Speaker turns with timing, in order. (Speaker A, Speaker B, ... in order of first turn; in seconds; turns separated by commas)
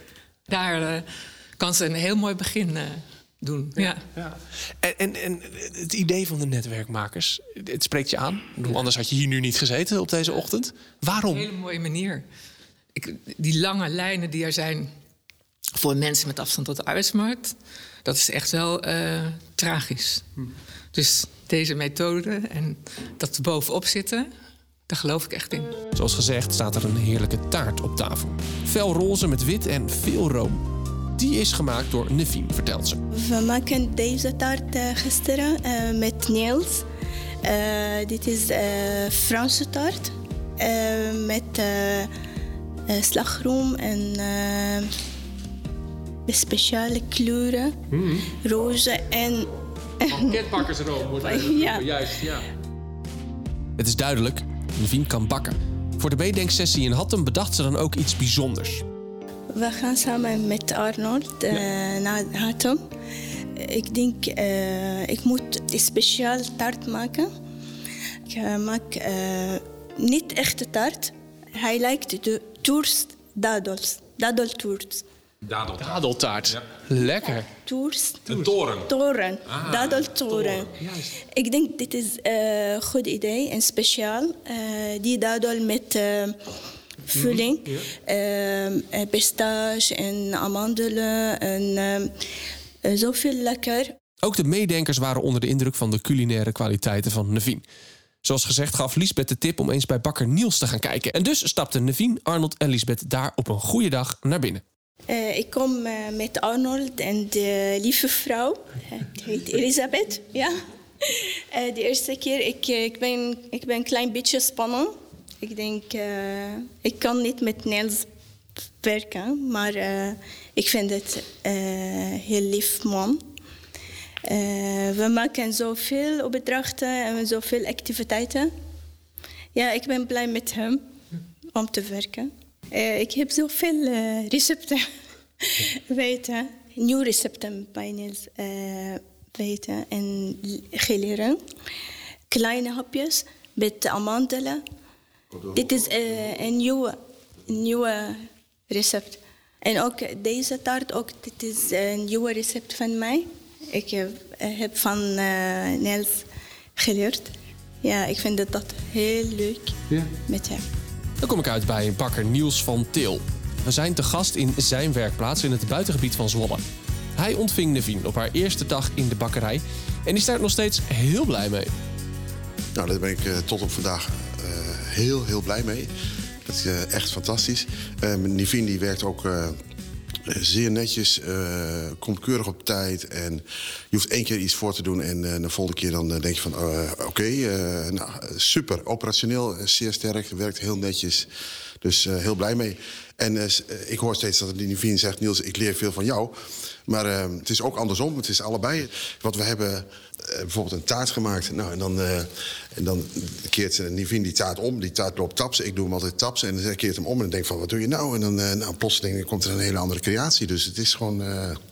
Speaker A: 0.5-1.1, Speaker A: 1.6-4.0, Speaker B: 4.2-11.5, Speaker A: 11.2-12.2, Speaker A: 12.9-14.9, Speaker A: 15.7-20.3, Speaker A: 20.9-24.3, Speaker A: 24.9-25.8, Speaker B: 25.9-30.6, Speaker B: 31.1-33.0, Speaker C: 33.1-36.8, Speaker C: 37.4-42.1, Speaker C: 42.9-44.9, Speaker C: 46.3-47.8, Speaker C: 48.3-49.5, Speaker C: 50.0-52.0, Speaker D: 50.3-52.4, Speaker B: 53.8-58.8, Speaker C: 59.5-62.8, Speaker C: 63.5-67.3, Speaker C: 68.3-75.0, Speaker E: 75.4-76.6, Speaker B: 75.8-77.5, Speaker C: 77.5-78.3, Speaker E: 78.3-78.9, Speaker C: 78.9-86.3, Speaker E: 79.5-80.1, Speaker C: 87.1-92.1, Speaker C: 92.8-93.9, Speaker B: 94.2-97.6, Speaker B: 98.2-104.6, Speaker C: 105.1-118.1, Speaker C: 118.8-123.2, Speaker C: 124.2-128.5, Speaker C: 129.5-130.8, Speaker C: 131.5-134.8, Speaker C: 135.4-141.4, Speaker C: 142.3-144.6, Speaker C: 145.5-146.9, Speaker C: 147.5-148.2, Speaker C: 148.7-156.2, Speaker C: 156.8-157.3, Speaker C: 157.8-159.8, Speaker C: 160.3-160.6, Speaker B: 161.2-166.6, Speaker B: 167.2-171.7, Speaker D: 172.8-175.9, Speaker D: 176.4-179.5, Speaker D: 180.3-191.3, Speaker D: 191.8-196.3, Speaker D: 196.9-211.6